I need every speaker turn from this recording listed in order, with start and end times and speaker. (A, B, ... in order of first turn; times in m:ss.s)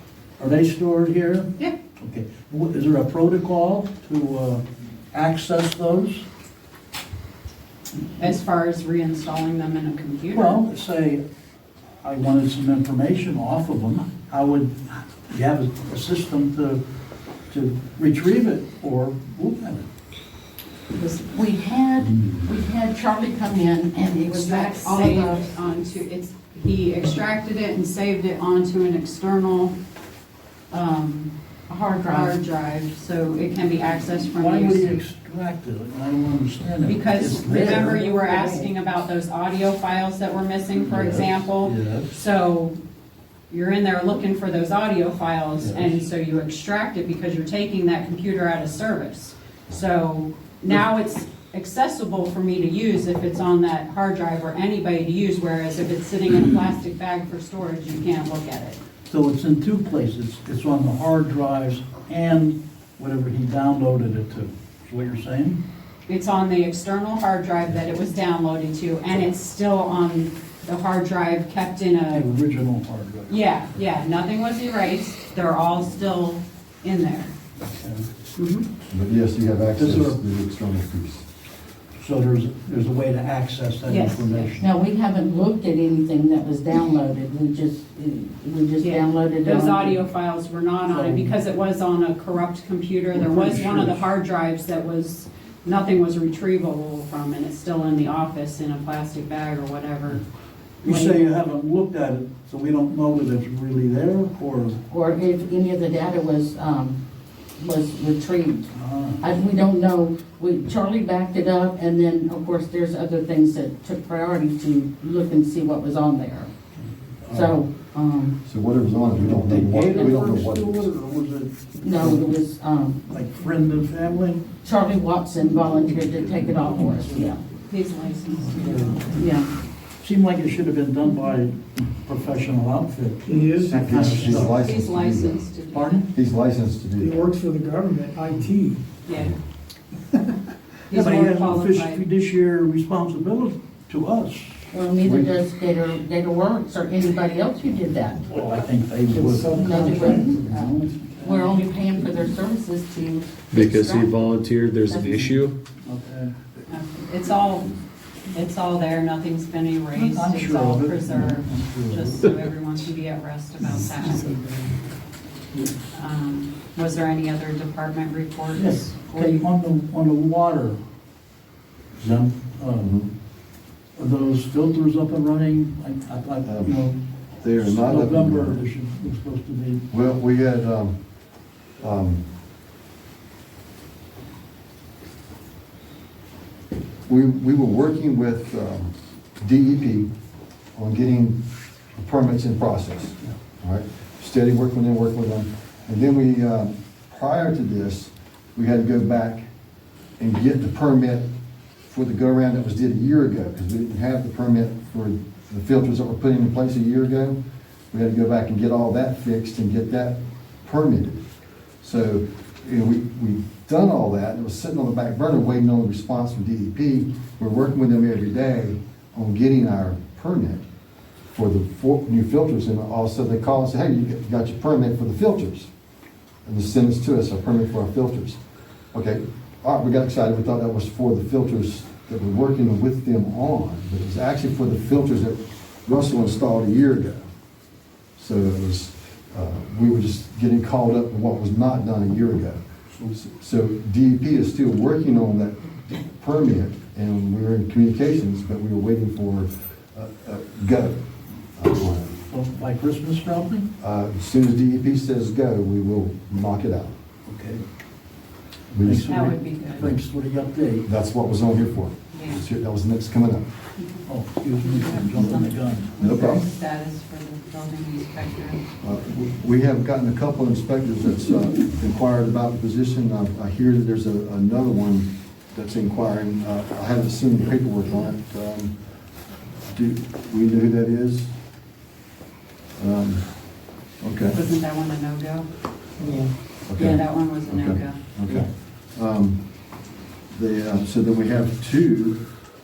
0:00.4-0:06.2 A
0:08.2-0:10.6 B
0:10.3-0:11.2 A
0:12.0-0:16.8 A
0:17.5-0:19.9 A
0:21.0-0:25.4 C
0:24.3-0:29.7 B
0:30.7-0:31.3 B
0:31.7-0:32.4 C
0:32.0-0:34.9 B
0:34.4-0:38.0 A
0:36.8-0:42.8 B
0:37.8-0:38.7 C
0:40.8-0:42.1 A
0:43.5-0:58.8 B
0:45.6-0:45.9 A
0:59.1-1:05.6 A
1:06.1-1:12.2 B
1:12.1-1:13.3 A
1:13.3-1:17.3 B
1:17.6-1:18.1 A
1:18.4-1:18.7 B
1:18.9-1:21.2 D
1:19.8-1:20.2 A
1:22.0-1:24.7 A
1:23.8-1:24.5 B
1:24.6-1:30.0 C
1:28.8-1:40.2 B
1:30.9-1:31.4 A
1:33.1-1:34.0 A
1:40.8-1:44.8 A
1:44.9-1:47.0 C
1:47.6-1:56.5 C
1:48.7-1:49.2 A
1:57.2-1:57.6 A
1:57.3-1:58.4 C
1:58.4-2:00.9 D
1:59.1-2:02.3 A
2:01.8-2:03.0 C
2:03.1-2:04.5 A
2:04.6-2:07.4 C
2:05.5-2:07.4 A
2:07.7-2:09.1 B
2:08.5-2:09.2 A
2:09.2-2:09.5 C
2:10.0-2:14.6 A
2:13.3-2:13.6 E
2:13.6-2:15.4 D
2:14.4-2:16.1 B
2:15.7-2:16.1 A
2:16.1-2:17.3 D
2:17.0-2:18.8 E
2:19.0-2:19.4 B
2:20.9-2:22.0 B
2:20.9-2:24.6 A
2:24.7-2:28.3 C
2:25.0-2:25.3 D
2:28.3-2:31.5 A
2:29.3-2:30.3 E
2:29.5-2:34.3 C
2:33.5-2:35.6 F
2:34.8-2:35.4 C
2:35.8-2:36.3 A
2:36.7-2:37.7 B
2:38.3-2:44.4 B
2:39.9-2:42.3 A
2:45.9-2:49.4 B
2:48.5-2:50.8 A
2:52.0-2:52.9 A
2:52.8-2:53.1 D
2:54.0-2:57.0 A
2:56.4-2:56.8 D
2:57.4-2:58.6 D
2:57.6-2:59.8 A
2:59.9-3:00.9 D
3:01.8-3:02.2 D
3:07.0-3:10.1 D
3:10.7-3:11.4 D
3:11.9-3:19.5 D
3:20.2-3:21.3 D
3:21.9-3:27.4 D
3:27.9-3:31.2 D
3:31.8-3:40.6 D
3:41.3-3:45.7 D
3:46.4-3:48.4 D
3:48.9-3:57.2 D
3:58.2-4:02.6 D
4:03.1-4:11.0 D
4:11.6-4:12.2 D
4:12.3-4:13.7 A
4:13.8-4:16.9 D
4:17.2-4:17.6 A
4:18.7-4:20.0 D
4:18.8-4:20.9 A
4:19.0-4:19.8 B
4:20.8-4:23.4 D
4:22.1-4:22.4 B
4:24.0-4:26.0 A
4:24.6-4:28.6 B
4:26.0-4:26.4 D
4:28.8-4:38.7 D
4:39.7-4:41.3 D
4:42.8-4:43.2 D
4:44.0-4:44.4 D
4:44.3-4:45.5 B
4:46.7-4:49.4 D
4:46.7-4:48.0 B
4:50.3-4:52.2 D